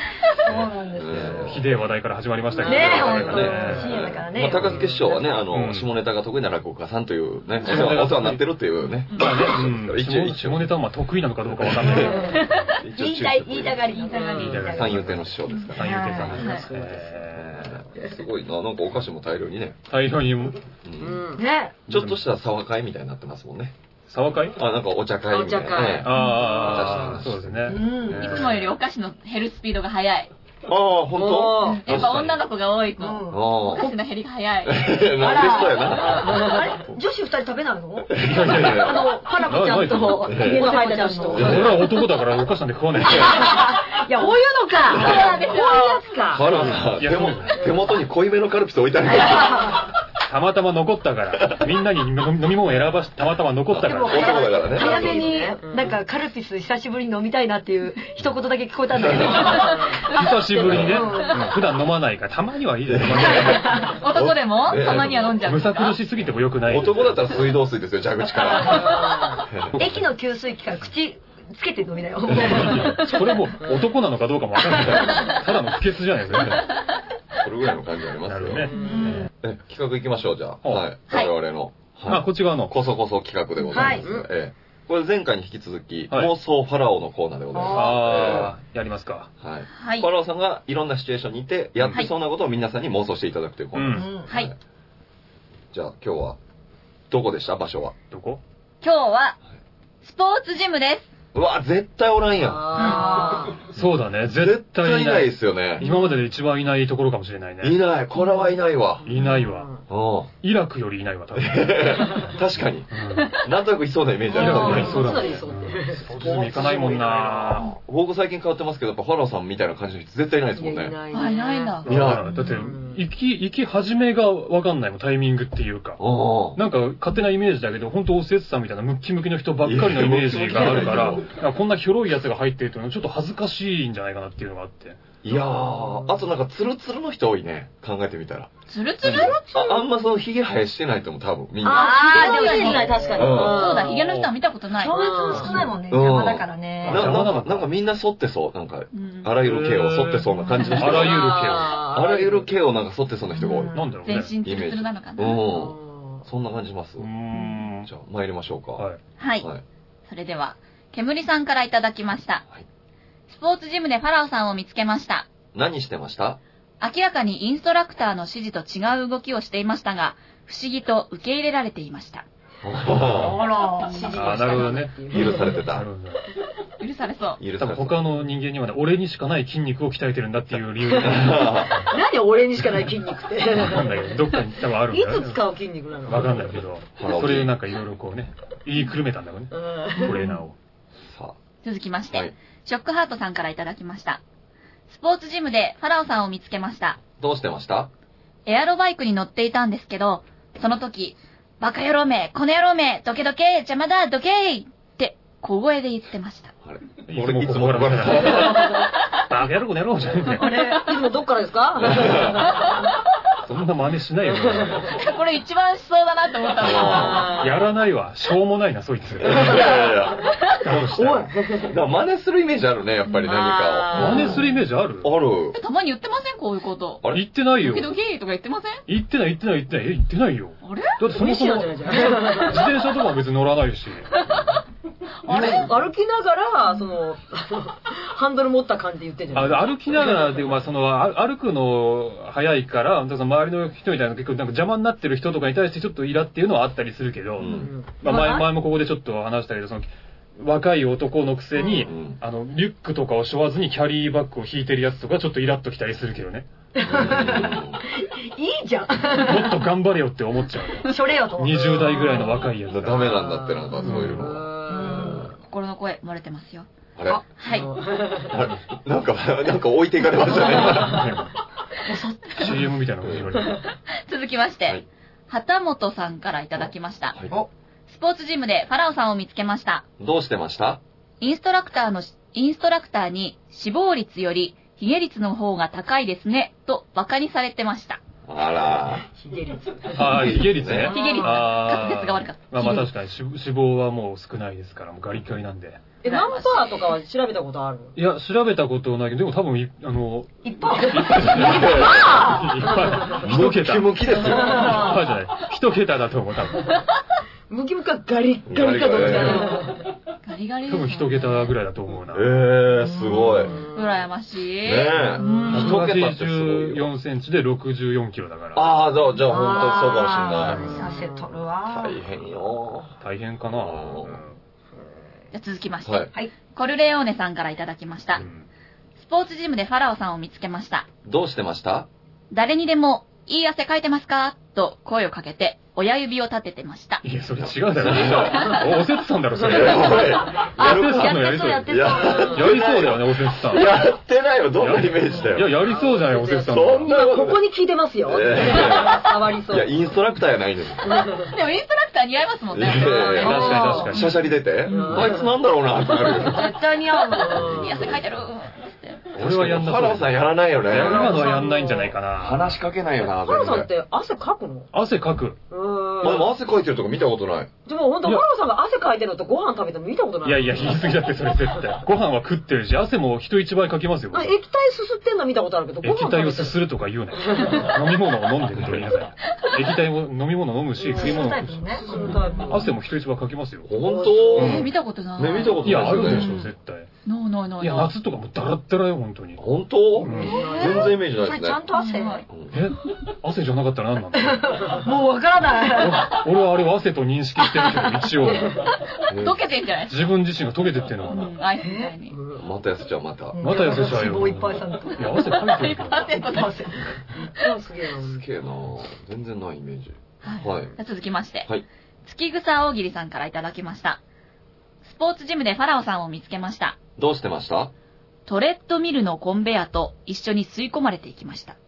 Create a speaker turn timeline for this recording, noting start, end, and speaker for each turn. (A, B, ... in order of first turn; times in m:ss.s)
0:00.3-0:01.6 A
0:00.4-0:01.7 B
0:01.4-0:04.0 C
0:02.6-0:05.0 A
0:02.6-0:03.5 D
0:02.6-0:10.7 B
0:04.5-0:05.2 D
0:05.5-0:05.9 C
0:07.6-0:08.4 C
0:09.1-0:09.4 E
0:09.1-0:12.7 C
0:11.5-0:13.9 B
0:11.9-0:15.2 A
0:12.0-0:12.5 D
0:14.0-0:14.2 E
0:14.1-0:14.7 D
0:14.3-0:17.8 C
0:14.4-0:16.6 B
0:15.5-0:16.7 E
0:15.8-0:16.5 A
0:16.3-0:17.1 D
0:17.3-0:19.8 B
0:19.9-0:20.6 C
0:20.8-0:21.2 B
0:21.0-0:21.4 D
0:21.4-0:21.8 A
0:21.9-0:23.7 B
0:21.9-0:22.2 C
0:24.1-0:24.6 C
0:24.5-0:28.7 B
0:25.3-0:26.1 D
0:26.0-0:27.8 C
0:26.1-0:26.6 E
0:27.7-0:28.4 A
0:28.2-0:30.3 E
0:30.6-0:32.3 B
0:31.1-0:31.9 D
0:31.6-0:34.8 E
0:31.9-0:32.3 C
0:33.0-0:33.7 A
0:33.3-0:33.9 B
0:34.6-0:36.5 B
0:35.0-0:41.6 A
0:36.0-0:36.8 D
0:38.1-0:39.1 B
0:38.2-0:40.4 C
0:40.2-0:40.7 B
0:40.4-0:41.7 D
0:41.3-0:41.8 B
0:41.3-0:43.4 C
0:43.0-0:45.7 A
0:44.9-0:46.0 E
0:44.9-0:46.7 D
0:45.0-0:45.3 B
0:46.3-0:49.8 B
0:46.5-0:47.5 C
0:47.6-0:47.9 D
0:49.5-0:49.8 A
0:50.2-0:54.3 C
0:53.7-0:55.2 B
0:53.8-1:01.6 A
0:54.2-0:55.9 D
0:59.0-0:59.4 B
0:59.1-1:01.4 D
0:59.4-0:59.7 E
1:00.1-1:03.9 C
1:00.6-1:01.0 B
1:02.8-1:05.4 B
1:03.3-1:04.0 A
1:03.8-1:06.0 E
1:05.4-1:07.4 C
1:06.6-1:09.8 B
1:08.6-1:09.5 D
1:09.7-1:10.0 C
1:09.8-1:13.2 A
1:12.3-1:12.8 B
1:12.4-1:16.6 C
1:14.7-1:15.3 B
1:16.3-1:16.6 B
1:17.4-1:28.6 B
1:18.2-1:19.1 C
1:18.6-1:19.2 D
1:18.8-1:19.3 A
1:22.0-1:22.7 C
1:23.7-1:24.1 A
1:23.8-1:24.3 D
1:27.5-1:28.3 A
1:27.7-1:29.3 C
1:29.4-1:34.5 B
1:29.8-1:30.1 E
1:33.7-1:34.1 C
1:33.9-1:34.3 A
1:34.3-1:34.5 E
1:35.7-1:36.4 B
1:37.1-1:37.9 B
1:38.1-1:38.4 C
1:38.8-1:39.4 E
1:40.0-1:41.1 E
1:41.3-1:43.1 B
1:42.4-1:43.6 D
1:42.8-1:43.5 A
1:43.7-1:47.8 C
1:43.7-1:45.9 B
1:45.8-1:46.2 D
1:47.6-1:49.2 B
1:49.0-1:49.8 D
1:49.0-1:49.7 C
1:49.9-1:50.3 B
1:50.4-1:52.3 C
1:51.3-1:55.4 B
1:52.9-1:53.3 C
1:54.3-1:57.7 C
1:54.4-1:57.6 D
1:54.7-1:55.0 E
1:57.6-2:01.0 B
2:00.6-2:03.0 D
2:01.1-2:01.9 E
2:01.8-2:02.4 B
2:01.8-2:06.0 C
2:02.3-2:02.6 A
2:06.0-2:06.6 B
2:06.5-2:15.0 C
2:09.6-2:11.3 B
2:15.2-2:18.5 B
2:15.3-2:16.2 D
2:18.7-2:19.4 E
2:19.0-2:23.8 B
2:19.0-2:19.8 D
2:21.6-2:24.2 D
2:21.6-2:23.3 A
2:21.7-2:25.1 E
2:24.0-2:24.3 C
2:24.8-2:25.7 D
2:24.8-2:27.2 A
2:25.9-2:31.3 B
2:26.8-2:27.7 C
2:28.9-2:29.4 E
2:29.4-2:31.8 C
2:30.5-2:31.1 E
2:30.8-2:32.5 D
2:31.9-2:33.8 B
2:33.4-2:33.9 A
2:33.7-2:34.3 C
2:34.0-2:35.4 E
2:34.4-2:37.1 B
2:35.4-2:36.2 D
2:37.0-2:37.9 C
2:37.3-2:37.6 E
2:37.8-2:38.8 B
2:39.2-2:39.5 E
2:40.1-2:42.4 E
2:43.3-2:45.3 E
2:45.5-2:46.4 B
2:46.8-2:52.2 E
2:52.6-2:53.4 B
2:53.1-2:54.2 A
2:53.8-2:55.6 D
2:53.8-2:54.1 E
2:54.1-2:56.2 C
2:55.1-2:55.8 B
2:56.8-2:57.4 E
2:57.4-2:58.0 B
2:57.6-3:01.7 C
3:00.9-3:01.9 B
3:01.5-3:06.6 D
3:02.6-3:02.9 C
3:03.5-3:05.4 C
3:06.0-3:10.6 C
3:07.0-3:07.5 B
3:09.5-3:10.2 D
3:10.0-3:10.4 E
3:11.1-3:11.4 B
3:11.6-3:14.2 E
3:14.9-3:17.0 E
3:17.2-3:17.9 B
3:18.4-3:26.5 E
3:26.6-3:28.7 B
3:27.1-3:30.6 C
3:30.3-3:30.9 A
3:30.7-3:32.9 D
3:31.8-3:32.5 B
3:33.4-3:35.0 C
3:34.3-3:34.9 D
3:34.9-3:37.4 E
3:36.6-3:37.3 B
3:36.7-3:37.6 D
3:37.4-3:39.6 C
3:39.2-3:44.4 B
3:40.6-3:41.3 C
3:40.9-3:41.7 D
3:43.2-3:44.4 D
3:43.9-3:45.1 C
3:45.0-3:45.6 B
3:45.5-3:48.8 E
3:47.1-3:47.9 C
3:48.9-3:54.1 C
3:50.6-3:51.0 E
3:51.0-3:52.7 D
3:55.2-3:55.7 E
3:55.3-3:55.7 B
3:55.3-3:59.7 D
3:59.3-4:16.5 C
4:07.4-4:07.7 B
4:07.4-4:08.4 D
4:08.1-4:08.4 A
4:11.6-4:11.9 A
4:11.8-4:12.2 B
4:16.8-4:19.6 A
4:16.8-4:17.8 B
4:19.2-4:24.3 C
4:20.8-4:22.4 A
4:22.7-4:25.3 B
4:23.0-4:25.2 D
4:24.7-4:25.3 A
4:25.4-4:26.7 E
4:27.0-4:27.2 B
4:27.4-4:27.7 E
4:27.4-4:28.4 D
4:28.3-4:31.1 B
4:30.6-4:31.3 C
4:31.8-4:32.6 A
4:32.4-4:33.6 C
4:33.9-4:37.2 E
4:36.6-4:37.4 B
4:37.9-4:39.8 E
4:40.0-4:40.8 B
4:41.2-4:48.0 E
4:48.3-4:49.1 B
4:49.1-4:50.2 D
4:49.9-4:55.8 C
4:50.0-4:50.9 B
4:50.7-4:51.4 A
4:50.9-4:52.9 E
4:56.0-4:57.9 D
4:56.0-4:56.7 E
4:58.0-5:06.8 C
5:00.4-5:02.6 A
5:01.2-5:02.3 B
5:01.6-5:03.1 D
5:03.0-5:05.0 B
5:04.4-5:04.9 A
5:07.5-5:09.8 D
5:08.4-5:09.5 B
5:10.2-5:11.5 E
5:10.7-5:12.4 C
5:12.1-5:13.6 B
5:12.8-5:13.6 A
5:13.4-5:14.0 D
5:13.7-5:15.6 E
5:14.6-5:16.9 B
5:15.2-5:15.5 D
5:15.2-5:15.7 A
5:15.5-5:18.8 C
5:18.5-5:20.7 B
5:19.2-5:22.0 A
5:20.4-5:21.3 D
5:21.7-5:22.9 B
5:23.0-5:24.3 C
5:23.5-5:24.2 B
5:25.3-5:28.2 E
5:28.2-5:28.4 C
5:29.0-5:30.9 E
5:31.0-5:31.9 B
5:32.3-5:37.0 E
5:37.0-5:43.7 C
5:37.4-5:38.6 B
5:38.1-5:38.5 E
5:39.4-5:45.6 B
5:40.5-5:42.4 A
5:42.0-5:42.4 D
5:44.6-5:47.0 C
5:45.6-5:49.7 D
5:46.5-5:47.4 B
5:48.0-5:51.1 B
5:50.9-5:51.3 D
5:51.2-5:54.2 E
5:52.5-5:56.6 B
5:53.2-5:53.9 A
5:53.2-5:54.2 C
5:54.7-5:55.1 E
5:54.7-5:55.3 D
5:56.2-5:57.6 A
5:57.1-5:57.9 D
5:57.4-5:58.0 B
5:57.4-5:59.1 E
5:59.1-6:01.2 B
5:59.1-6:02.6 C
6:00.8-6:01.9 D
6:02.2-6:03.7 B
6:03.1-6:04.7 D
6:04.7-6:05.4 C
6:05.5-6:06.3 D
6:06.0-6:07.5 B
6:07.6-6:11.0 D
6:10.2-6:14.3 C
6:14.1-6:16.6 D
6:15.8-6:23.7 C
6:17.1-6:17.8 D
6:18.6-6:18.8 B
6:20.8-6:22.7 D
6:20.9-6:22.3 A
6:21.9-6:22.3 E
6:23.6-6:26.4 B
6:23.8-6:24.6 D
6:24.3-6:26.2 E
6:24.3-6:24.7 C
6:25.6-6:26.9 C
6:26.1-6:26.5 A
6:27.0-6:27.9 E
6:27.6-6:29.4 C
6:29.4-6:31.6 B
6:30.0-6:30.4 C
6:30.0-6:31.0 D
6:30.2-6:32.3 A
6:30.2-6:30.8 E
6:31.7-6:32.2 E
6:32.3-6:32.6 B
6:32.5-6:34.8 C
6:34.2-6:36.2 A
6:35.7-6:38.7 C
6:37.4-6:38.1 A
6:38.4-6:38.6 D
6:39.1-6:39.4 B
6:39.1-6:40.0 E
6:39.9-6:41.3 C
6:41.1-6:42.2 E
6:41.6-6:41.9 A
6:42.1-6:42.4 D
6:42.4-6:44.0 B
6:43.3-6:45.2 A
6:43.4-6:46.2 C
6:45.2-6:47.4 E
6:46.1-6:47.0 A
6:47.1-6:48.2 D
6:48.0-6:50.7 B
6:50.2-6:51.5 E
6:52.0-6:54.0 E
6:54.8-6:56.8 E
6:57.0-6:57.7 B
6:58.2-7:01.6 E